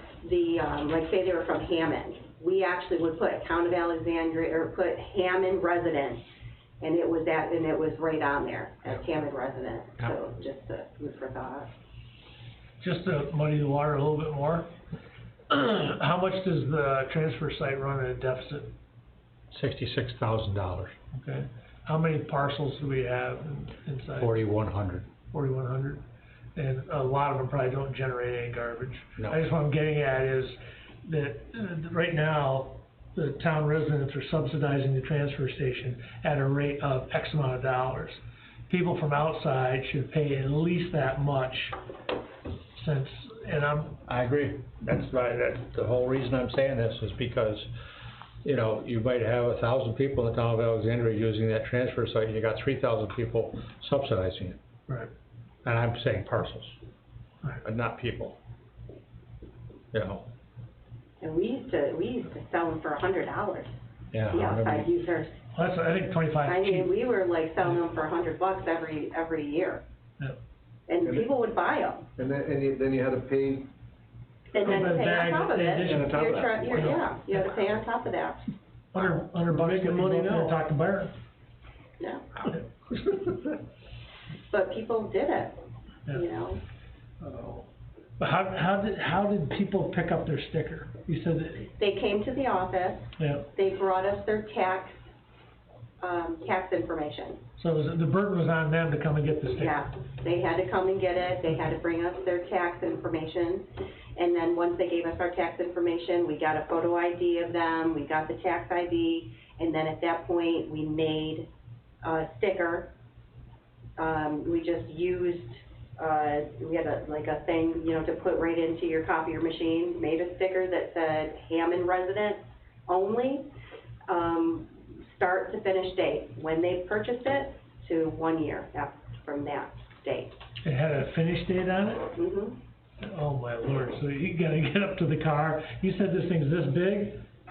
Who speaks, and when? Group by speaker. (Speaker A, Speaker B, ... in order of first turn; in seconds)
Speaker A: 0.2-6.2, 6.8-11.7, 61.2-63.7, 64.3-65.4, 66.5-69.8, 70.9-72.1, 74.5-78.4, 82.0-82.2, 84.5-85.6, 86.1-86.6, 91.7-95.0, 96.0-97.4, 99.5-111.5, 112.0-112.9, 114.0-123.5, 124.1-130.3, 132.2-132.6
Speaker B: 12.8-14.7, 15.5-18.7, 21.1-24.5, 25.3-26.0, 26.6-41.8, 42.8-44.0, 65.5-66.9, 74.5-77.4, 78.9-81.1, 87.2-87.6, 88.2-91.7, 93.2-93.5, 97.6-99.8, 130.6-132.1, 133.0-137.2
Speaker C: 19.5-20.9, 24.2-25.1, 44.1-47.7, 48.4-54.6, 55.6-56.8, 57.6-58.4, 59.9-60.2, 64.1-64.9
Speaker D: 72.2-73.7, 75.8-77.0